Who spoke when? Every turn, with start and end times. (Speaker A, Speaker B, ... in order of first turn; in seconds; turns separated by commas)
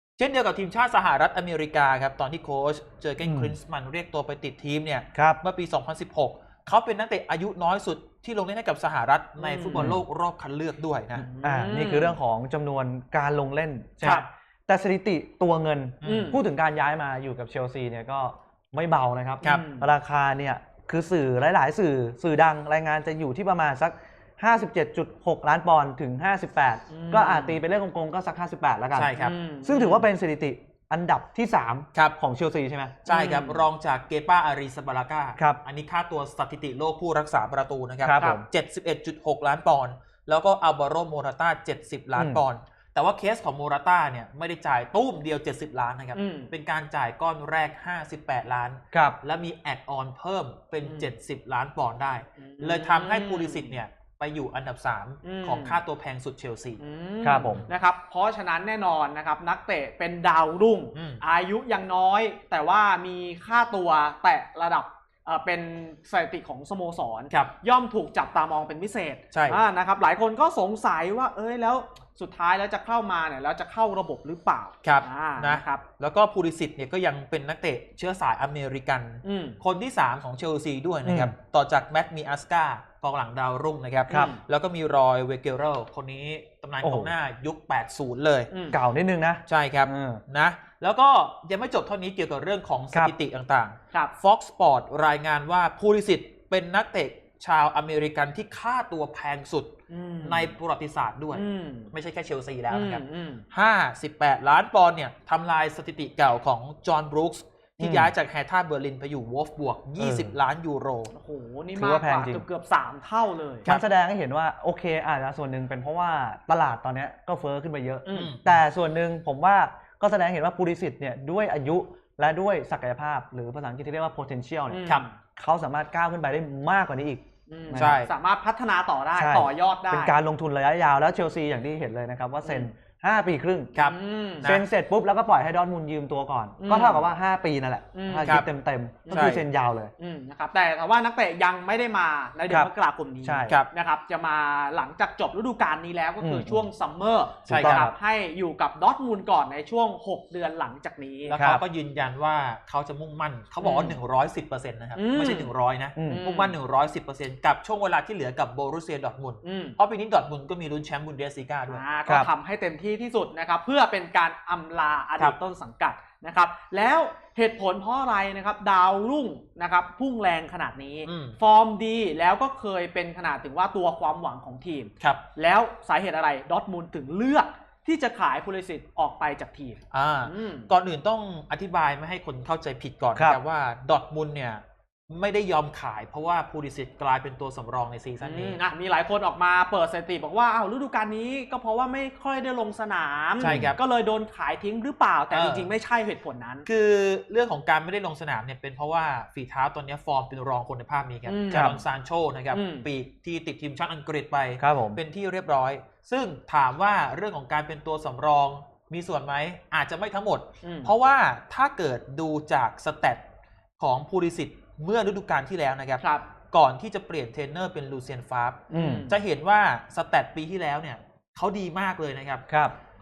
Speaker A: 0.2-11.3, Speaker B: 3.2-3.5, Speaker B: 5.1-5.4, Speaker C: 9.4-9.9, Speaker B: 9.7-10.0, Speaker C: 11.2-12.2, Speaker B: 11.4-33.0, Speaker A: 16.0-16.3, Speaker C: 16.0-16.4, Speaker C: 19.4-19.9, Speaker C: 26.9-27.6, Speaker A: 28.9-29.3, Speaker C: 29.1-30.1, Speaker A: 33.0-56.8, Speaker C: 33.1-33.6, Speaker B: 38.0-38.4, Speaker C: 38.1-38.4, Speaker B: 42.1-42.4, Speaker C: 46.1-46.5, Speaker B: 48.9-49.2, Speaker C: 50.8-51.1, Speaker C: 52.4-53.8, Speaker C: 55.2-55.8, Speaker C: 56.8-75.8, Speaker B: 57.2-57.6, Speaker A: 60.9-61.2, Speaker A: 69.3-69.6, Speaker A: 74.8-88.5, Speaker C: 79.2-79.6, Speaker B: 81.0-81.3, Speaker C: 84.1-84.4, Speaker B: 86.8-87.1, Speaker C: 88.5-88.8, Speaker B: 88.7-90.2, Speaker A: 89.5-111.1, Speaker C: 99.9-100.5, Speaker C: 101.3-101.9, Speaker C: 102.7-103.4, Speaker B: 107.8-108.1, Speaker B: 110.0-110.3, Speaker C: 111.1-113.7, Speaker B: 111.7-112.4, Speaker B: 113.7-128.0, Speaker C: 118.0-118.3, Speaker A: 118.1-118.6, Speaker C: 124.7-125.2, Speaker C: 127.5-130.1, Speaker A: 127.8-128.1, Speaker B: 129.1-133.7, Speaker C: 132.4-132.7, Speaker A: 133.7-134.6, Speaker C: 133.8-134.5, Speaker B: 134.4-139.9, Speaker C: 136.6-137.1, Speaker C: 137.9-138.4, Speaker C: 139.1-139.4, Speaker A: 139.1-139.4, Speaker C: 140.0-151.3, Speaker B: 143.2-143.6, Speaker B: 146.2-146.7, Speaker A: 147.5-147.9, Speaker B: 147.5-147.9, Speaker A: 151.3-161.8, Speaker B: 151.3-151.6, Speaker C: 153.6-154.0, Speaker C: 154.9-155.5, Speaker B: 156.0-156.2, Speaker C: 156.1-156.5, Speaker C: 159.4-159.8, Speaker C: 161.7-180.7, Speaker A: 171.1-171.4, Speaker A: 179.9-188.6, Speaker C: 188.2-196.7, Speaker A: 193.4-193.8, Speaker A: 195.3-195.7, Speaker A: 196.7-213.2, Speaker C: 201.2-201.8, Speaker B: 201.5-201.8, Speaker C: 202.5-202.8, Speaker B: 204.6-205.0, Speaker C: 210.6-210.9, Speaker A: 213.8-222.4, Speaker C: 216.0-216.2, Speaker C: 218.7-219.2, Speaker B: 218.7-219.1, Speaker B: 222.5-222.7